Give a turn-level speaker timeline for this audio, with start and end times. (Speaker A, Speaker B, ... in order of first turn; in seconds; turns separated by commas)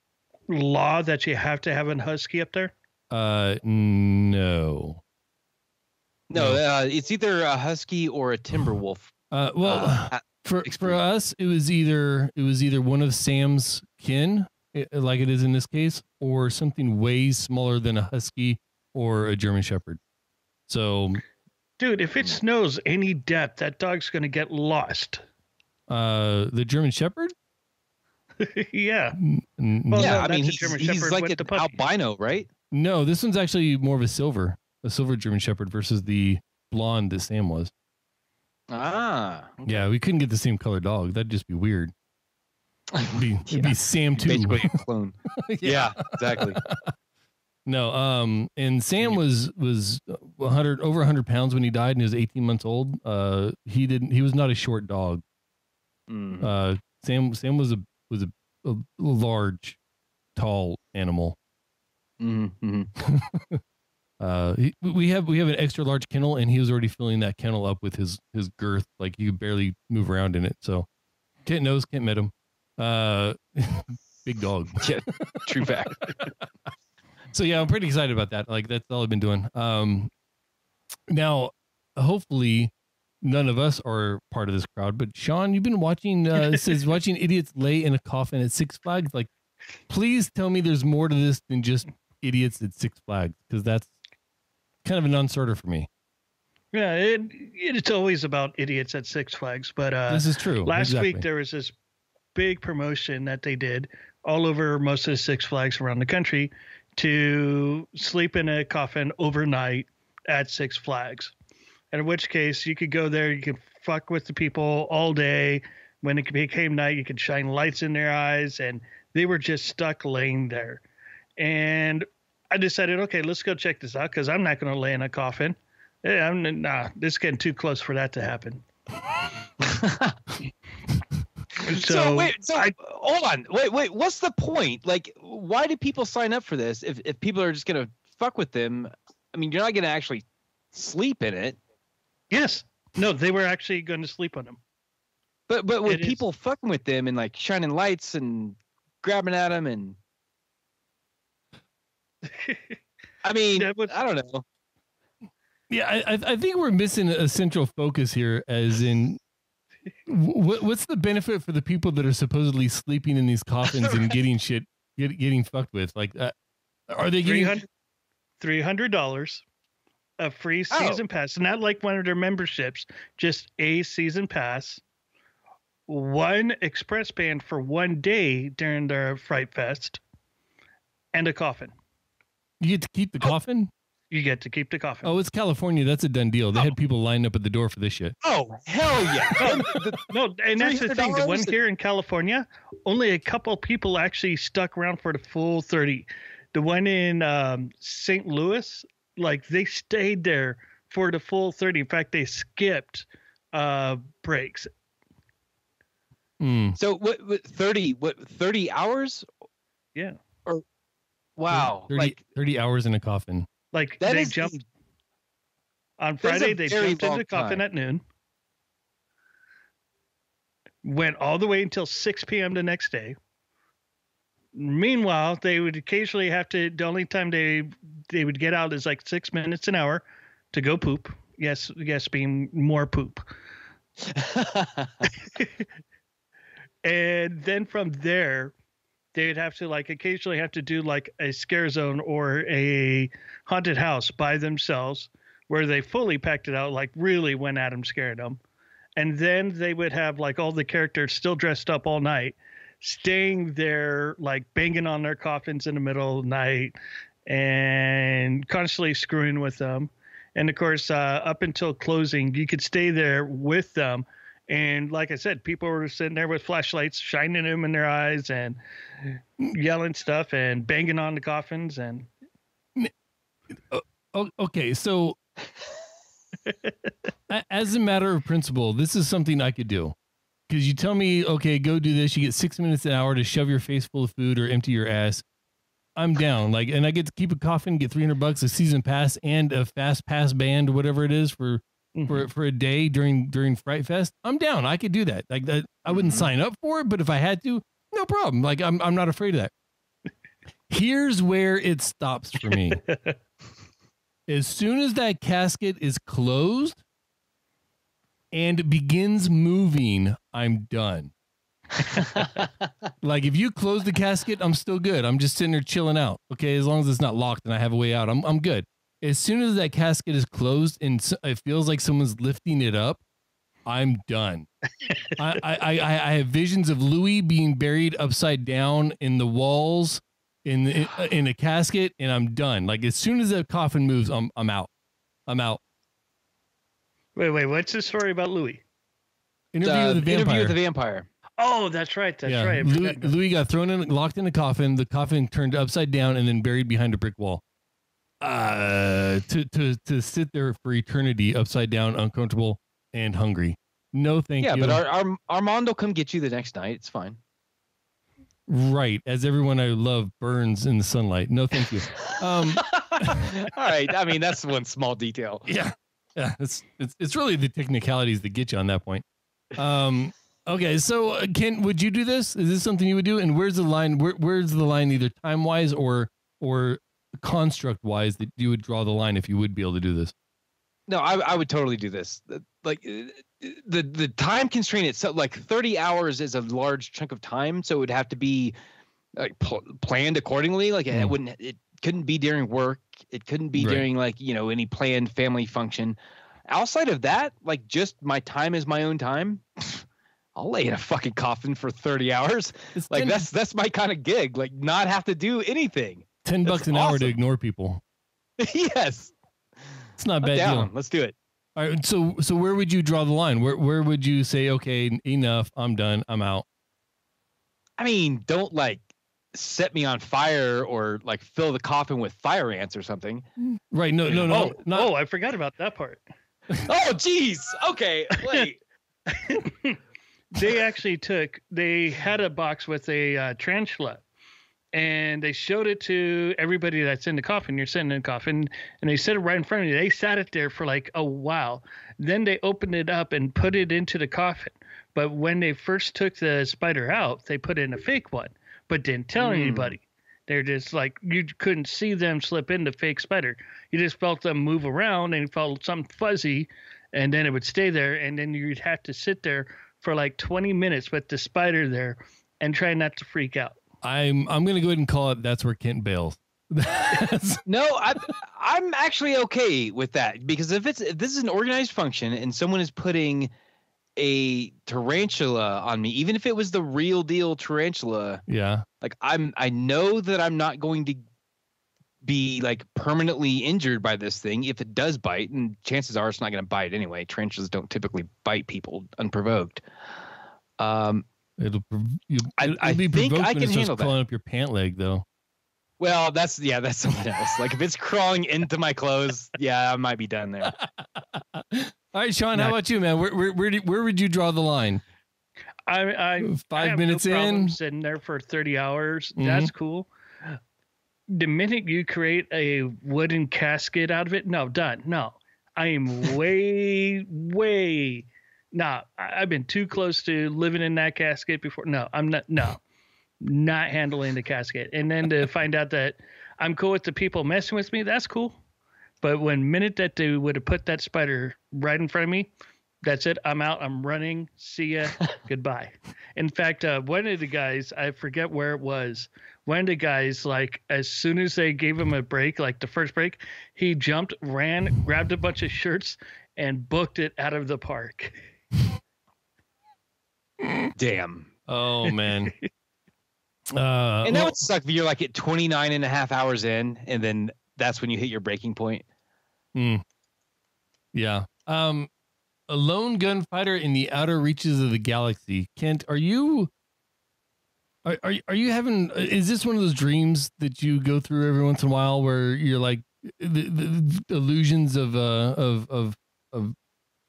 Speaker A: 0.5-2.7, Speaker B: 3.1-5.0, Speaker C: 6.3-9.1, Speaker B: 6.3-6.6, Speaker B: 9.3-20.0, Speaker C: 9.6-11.0, Speaker B: 20.7-21.2, Speaker A: 21.8-25.2, Speaker B: 25.9-27.3, Speaker A: 28.4-29.2, Speaker B: 29.2-30.2, Speaker A: 29.9-31.8, Speaker C: 29.9-32.5, Speaker B: 32.7-37.7, Speaker C: 38.7-39.9, Speaker B: 39.6-41.9, Speaker C: 42.9-46.6, Speaker B: 43.1-44.7, Speaker B: 45.4-46.9, Speaker B: 47.6-55.2, Speaker C: 56.1-56.5, Speaker B: 56.4-59.8, Speaker B: 60.3-61.4, Speaker C: 62.2-62.9, Speaker B: 63.0-63.6, Speaker B: 64.2-70.8, Speaker B: 71.4-76.3, Speaker C: 74.8-76.0, Speaker B: 77.3-80.1, Speaker B: 81.1-89.3, Speaker B: 89.9-93.9, Speaker B: 94.8-95.9, Speaker A: 96.7-101.7, Speaker B: 100.1-101.2, Speaker A: 102.3-111.3, Speaker A: 111.9-120.8, Speaker A: 121.4-128.6, Speaker C: 129.6-130.2, Speaker C: 131.6-141.6, Speaker A: 131.6-132.7, Speaker A: 142.3-144.6, Speaker C: 145.5-150.0, Speaker A: 145.8-146.2, Speaker C: 153.2-154.4, Speaker A: 153.6-153.9, Speaker B: 155.7-159.2, Speaker B: 160.1-166.3, Speaker B: 166.9-167.6, Speaker A: 167.2-167.6, Speaker A: 168.4-169.4, Speaker A: 170.2-174.8, Speaker C: 170.7-171.0, Speaker A: 175.9-180.0, Speaker A: 181.1-181.7, Speaker B: 182.6-183.7, Speaker A: 184.1-185.1, Speaker B: 185.0-188.2, Speaker C: 188.2-190.0, Speaker A: 189.4-204.7, Speaker C: 190.6-191.5, Speaker B: 206.4-206.8, Speaker C: 206.8-209.2, Speaker C: 211.4-212.2, Speaker B: 211.5-213.5, Speaker A: 213.7-214.6, Speaker C: 214.0-214.6, Speaker A: 216.0-218.0, Speaker C: 216.2-217.6, Speaker A: 220.8-223.2, Speaker A: 224.5-233.2, Speaker C: 234.1-235.0, Speaker A: 235.0-235.6, Speaker A: 236.8-238.5, Speaker A: 239.1-248.4, Speaker A: 248.9-256.7, Speaker A: 257.3-268.6, Speaker A: 269.4-272.1, Speaker B: 273.5-275.2, Speaker B: 277.3-279.9, Speaker B: 280.5-285.2, Speaker B: 285.9-299.5, Speaker A: 291.9-292.3, Speaker C: 295.9-296.3, Speaker B: 300.7-302.8, Speaker B: 304.3-306.8, Speaker B: 308.3-311.1, Speaker B: 313.0-323.0, Speaker B: 323.6-324.5, Speaker B: 325.1-334.7, Speaker B: 335.3-335.6, Speaker A: 337.1-338.6, Speaker B: 339.5-340.6, Speaker C: 339.6-341.1, Speaker A: 341.4-343.1, Speaker B: 342.2-347.4, Speaker B: 348.2-354.8, Speaker C: 354.4-357.2, Speaker B: 358.5-363.3, Speaker C: 362.7-365.5, Speaker B: 365.5-369.0, Speaker B: 369.6-380.1, Speaker C: 380.9-388.5, Speaker C: 389.1-396.0, Speaker B: 393.6-393.9, Speaker C: 396.5-399.8, Speaker C: 400.4-407.1, Speaker B: 402.7-403.2, Speaker B: 406.2-407.8, Speaker C: 408.4-409.1, Speaker B: 410.0-410.7, Speaker C: 410.2-411.1, Speaker B: 411.6-416.4, Speaker C: 417.8-423.2, Speaker B: 423.5-424.9, Speaker A: 424.2-426.0, Speaker C: 426.6-428.6, Speaker A: 429.1-429.8, Speaker A: 430.3-434.0, Speaker A: 434.7-463.6, Speaker C: 449.2-449.7, Speaker B: 463.8-467.4, Speaker C: 467.4-473.3, Speaker C: 473.9-478.2, Speaker B: 478.3-478.6, Speaker C: 478.8-481.0, Speaker C: 482.0-489.6, Speaker C: 490.6-491.0, Speaker B: 491.4-495.0, Speaker C: 492.4-493.9, Speaker C: 495.8-500.5, Speaker B: 500.5-504.8, Speaker A: 505.7-509.9, Speaker B: 506.2-507.5, Speaker B: 509.2-509.5, Speaker A: 511.1-522.6, Speaker A: 523.2-528.4, Speaker A: 529.0-532.3, Speaker A: 532.8-548.2, Speaker C: 550.8-551.3, Speaker B: 551.5-552.3, Speaker B: 553.5-554.4, Speaker C: 554.0-558.8, Speaker B: 559.5-559.8, Speaker B: 560.9-561.9, Speaker B: 562.5-566.5, Speaker B: 567.8-576.5